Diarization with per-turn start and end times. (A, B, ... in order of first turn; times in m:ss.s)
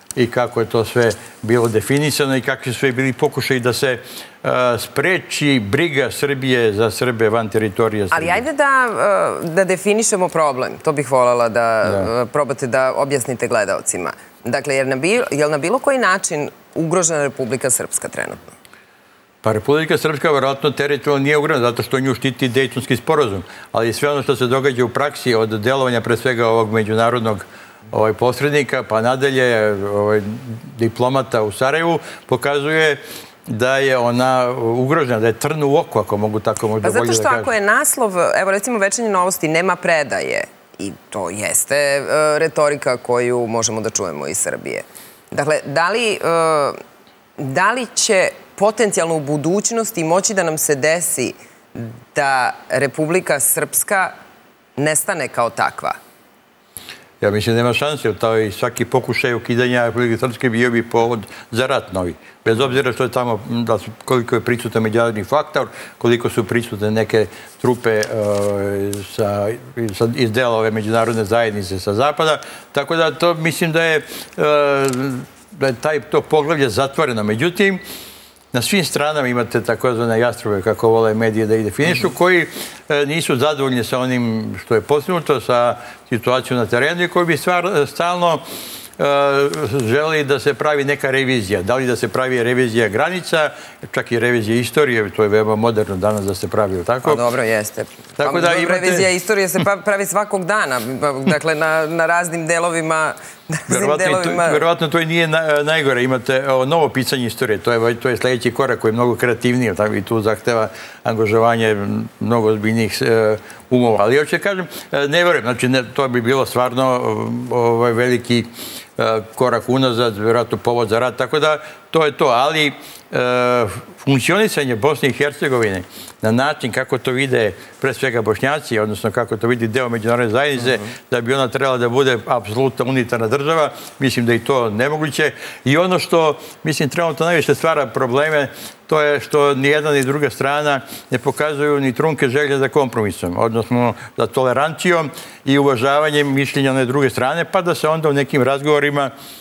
0:00.2-0:08.4 A
0:08.1-0:18.4 B
0:19.4-0:37.5 A
0:36.8-0:46.8 B
0:47.4-0:54.1 B
0:54.8-0:56.0 B
0:57.2-1:17.8 A
1:18.5-1:28.4 A
1:29.0-1:37.2 A
1:37.0-1:44.6 B
1:38.2-1:39.1 A
1:43.7-2:29.1 A